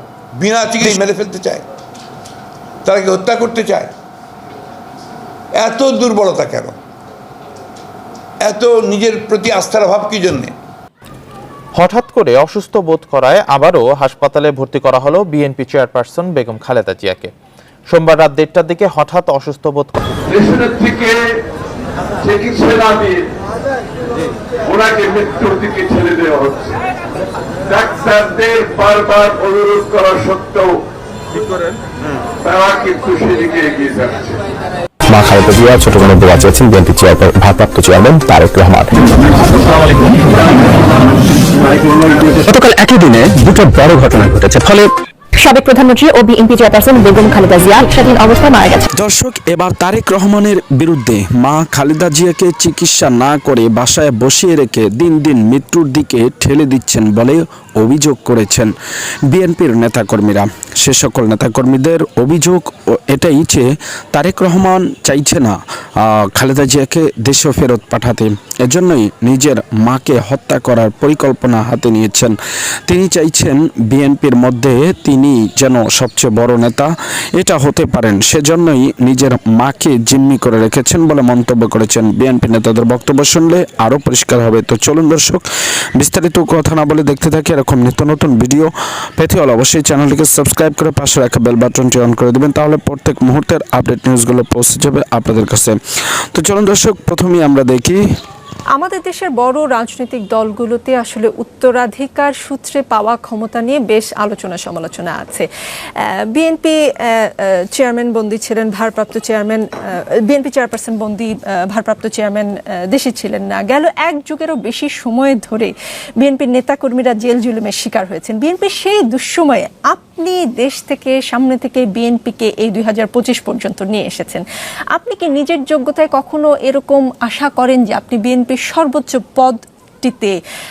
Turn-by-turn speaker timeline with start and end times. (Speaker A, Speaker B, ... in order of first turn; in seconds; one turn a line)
Speaker A: 0.4-1.6
Speaker A: 2.8-3.9
Speaker A: 5.6-6.8
Speaker A: 8.4-10.5
Speaker B: 11.7-17.3
Speaker B: 17.9-19.9
Speaker C: 20.3-21.2
Speaker C: 22.2-23.2
Speaker C: 24.7-26.8
Speaker C: 27.7-30.7
Speaker C: 32.4-34.4
Speaker D: 35.1-38.9
Speaker D: 42.5-44.9
Speaker E: 45.4-48.8
Speaker F: 48.9-58.7
Speaker F: 59.3-72.3
Speaker F: 72.9-85.4
Speaker F: 86.0-95.8
Speaker F: 96.3-98.0
Speaker G: 98.8-105.5
Speaker G: 106.0-130.4